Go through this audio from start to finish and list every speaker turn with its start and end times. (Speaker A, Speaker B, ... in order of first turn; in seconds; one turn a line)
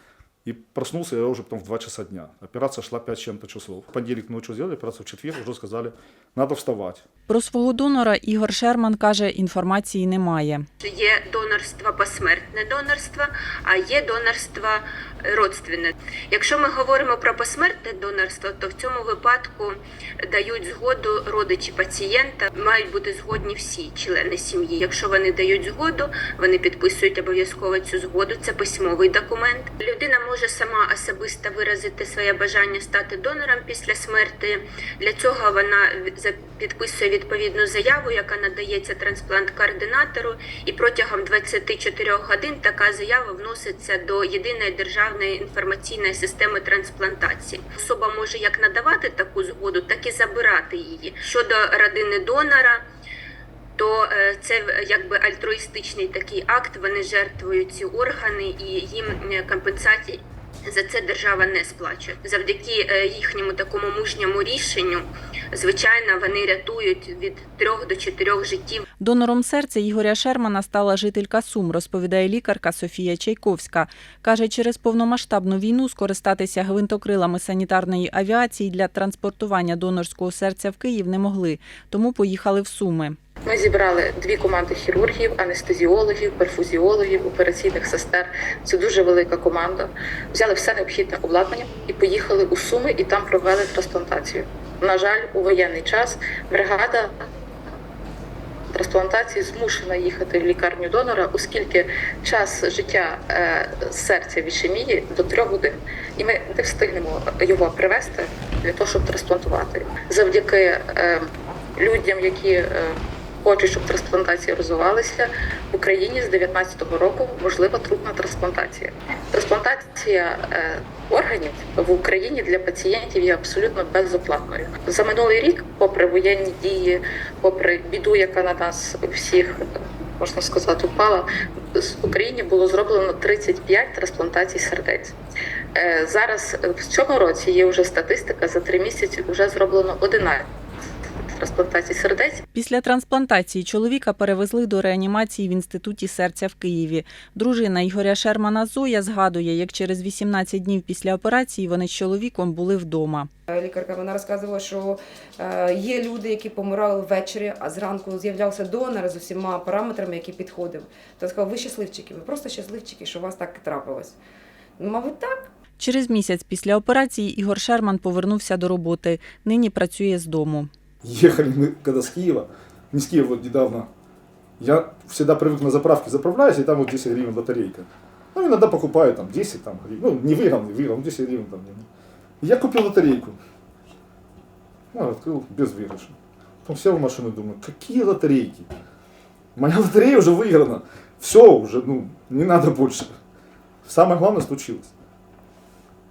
Speaker A: 0.4-7.0
Speaker B: 7.3-10.6
Speaker C: 10.8-52.8
Speaker C: 53.8-68.8
Speaker B: 69.0-83.2
Speaker D: 83.5-97.1
Speaker D: 98.7-111.2
Speaker D: 111.8-129.6
Speaker D: 130.2-135.1
Speaker D: 135.7-140.4
Speaker D: 141.3-142.4
Speaker B: 142.5-153.3
Speaker E: 153.5-164.2
Speaker E: 164.8-165.5
Speaker B: 165.8-170.7
Speaker A: 171.0-173.9
Speaker A: 174.6-181.9
Speaker A: 182.4-183.4
Speaker A: 184.9-188.7
Speaker A: 189.6-193.1
Speaker A: 193.8-194.9